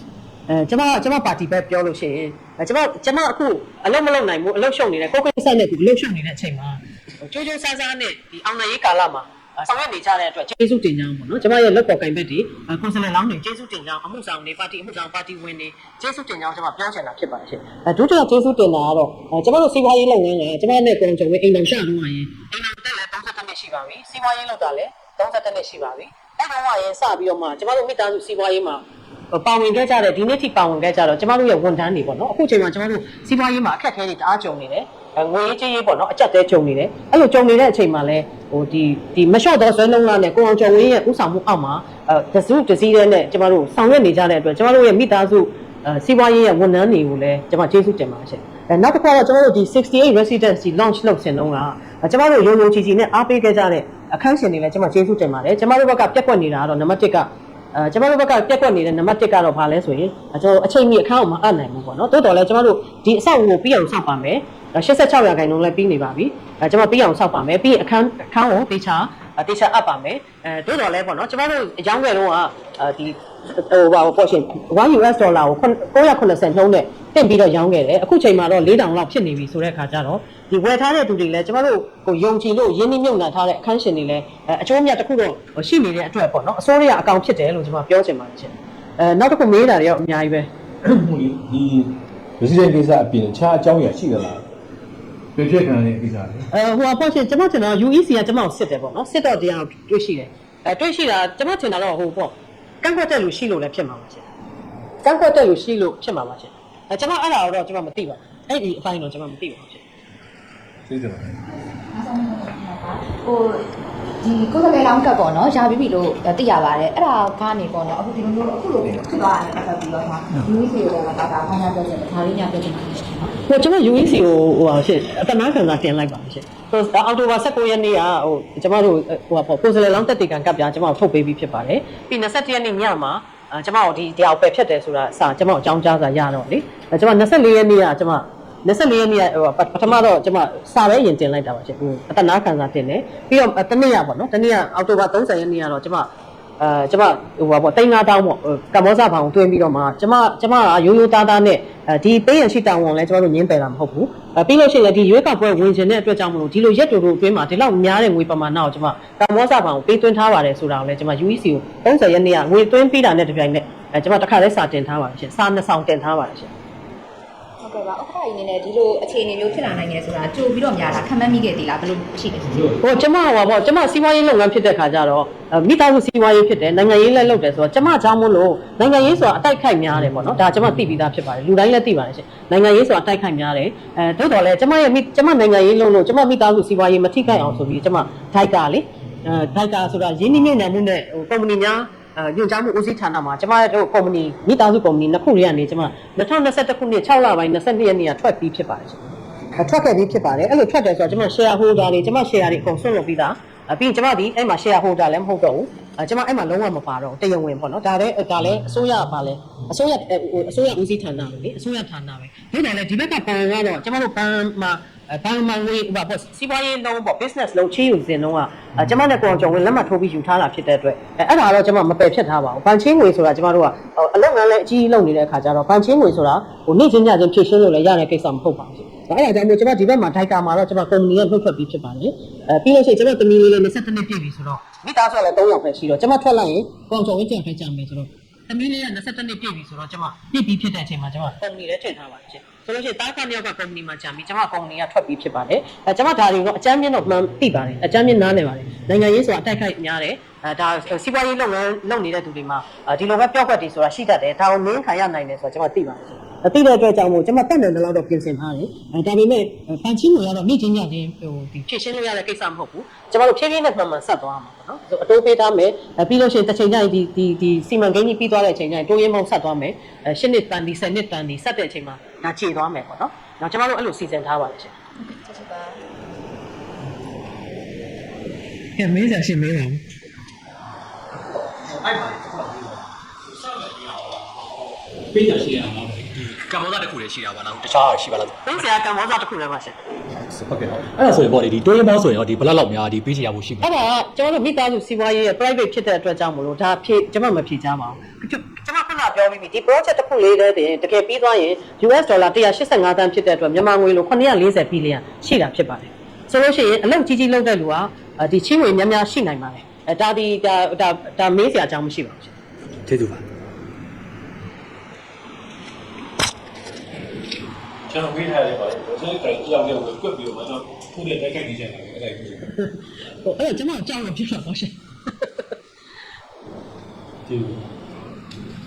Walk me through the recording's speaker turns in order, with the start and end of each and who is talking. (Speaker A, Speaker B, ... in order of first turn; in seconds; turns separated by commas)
Speaker A: 0.5-90.5, Speaker B: 90.8-94.4, Speaker B: 95.3-96.5, Speaker A: 96.5-104.3, Speaker A: 105.0-109.8, Speaker B: 110.9-111.4, Speaker C: 111.9-113.6, Speaker C: 114.2-123.3, Speaker A: 123.5-166.5, Speaker C: 167.6-172.8, Speaker A: 172.8-199.0, Speaker A: 199.6-274.7, Speaker C: 275.0-275.8, Speaker A: 278.8-279.8, Speaker D: 281.7-282.8, Speaker D: 283.4-284.2, Speaker D: 285.1-288.6, Speaker A: 288.4-289.8, Speaker D: 290.2-293.8, Speaker A: 293.6-312.3, Speaker D: 312.9-313.2, Speaker B: 317.9-322.5, Speaker A: 322.5-325.3, Speaker B: 327.2-327.7